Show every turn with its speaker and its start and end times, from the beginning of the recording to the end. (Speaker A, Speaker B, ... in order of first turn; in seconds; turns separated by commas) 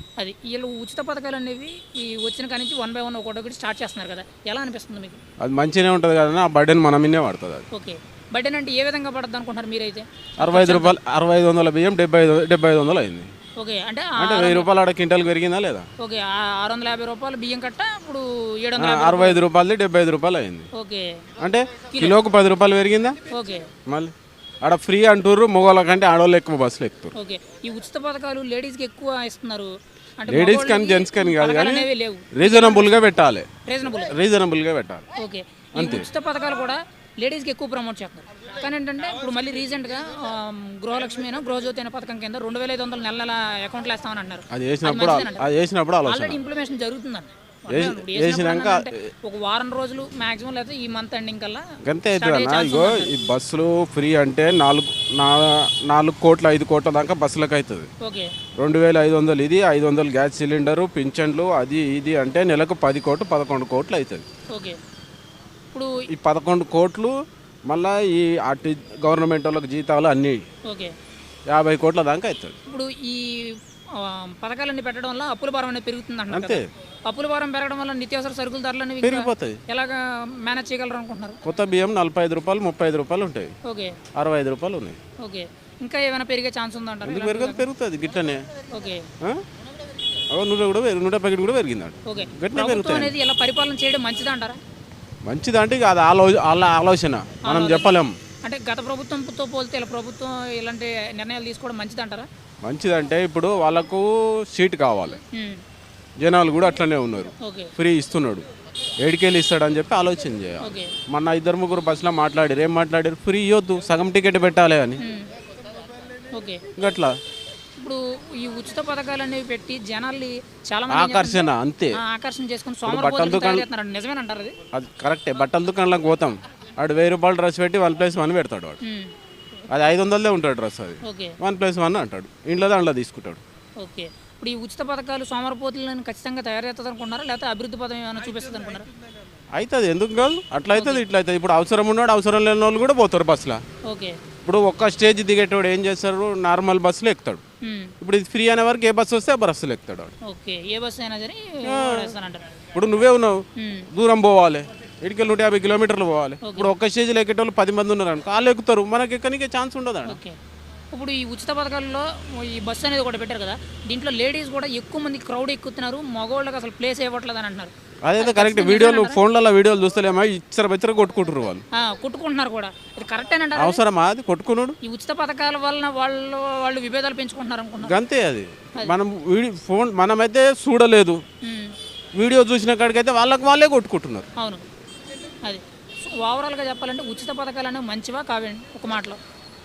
Speaker A: 0.2-5.2, Speaker B: 5.4-7.7, Speaker A: 7.7-11.0, Speaker B: 10.4-13.3, Speaker A: 13.6-14.7, Speaker B: 14.2-15.9, Speaker A: 16.0-19.4, Speaker B: 18.8-20.7, Speaker A: 20.7-21.2, Speaker B: 21.4-23.2, Speaker A: 21.9-22.2, Speaker A: 23.3-23.7, Speaker B: 23.9-24.1, Speaker B: 24.6-27.1, Speaker A: 27.1-32.9, Speaker B: 30.3-35.0, Speaker A: 33.6-34.2, Speaker A: 35.2-45.5, Speaker B: 35.8-36.1, Speaker B: 44.5-46.4, Speaker A: 46.1-51.6, Speaker B: 47.7-49.1, Speaker B: 51.8-57.9, Speaker A: 52.2-53.1, Speaker A: 58.0-58.3, Speaker B: 58.6-64.3, Speaker A: 64.5-64.8, Speaker A: 65.7-66.1, Speaker B: 66.1-67.2, Speaker B: 67.7-70.4, Speaker A: 70.7-70.9, Speaker B: 71.5-72.6, Speaker A: 72.7-81.4, Speaker B: 76.3-76.7, Speaker B: 79.0-79.6, Speaker B: 81.4-83.5, Speaker A: 83.7-84.0, Speaker B: 84.2-85.0, Speaker A: 85.2-87.7, Speaker B: 87.0-88.5, Speaker A: 88.7-89.1, Speaker B: 90.3-93.1, Speaker A: 92.1-94.6, Speaker B: 95.3-98.2, Speaker A: 97.4-102.3, Speaker B: 102.6-105.2, Speaker A: 105.3-105.6, Speaker B: 106.2-108.5, Speaker A: 107.4-107.7, Speaker B: 109.0-115.0, Speaker A: 110.6-110.9, Speaker A: 115.0-115.3, Speaker A: 116.3-116.6, Speaker B: 116.8-117.2, Speaker A: 117.8-124.5, Speaker B: 120.9-122.0, Speaker B: 122.9-123.7, Speaker B: 124.7-128.8, Speaker A: 128.8-129.1, Speaker B: 129.7-133.4, Speaker A: 131.0-131.4, Speaker A: 133.8-138.9, Speaker B: 139.5-143.6, Speaker A: 140.7-141.0, Speaker A: 143.8-144.2, Speaker B: 144.4-147.4, Speaker A: 147.6-147.9, Speaker B: 148.0-150.1, Speaker A: 150.2-152.5, Speaker B: 151.6-152.2, Speaker B: 152.8-160.2, Speaker A: 153.6-153.9, Speaker A: 156.4-156.7, Speaker A: 160.1-160.4, Speaker A: 160.9-169.2, Speaker B: 168.1-171.7, Speaker A: 171.7-173.8, Speaker B: 173.6-174.8, Speaker A: 174.8-178.0, Speaker B: 177.8-181.2, Speaker A: 181.4-181.8, Speaker B: 182.2-184.3, Speaker A: 184.4-184.6, Speaker A: 185.4-189.2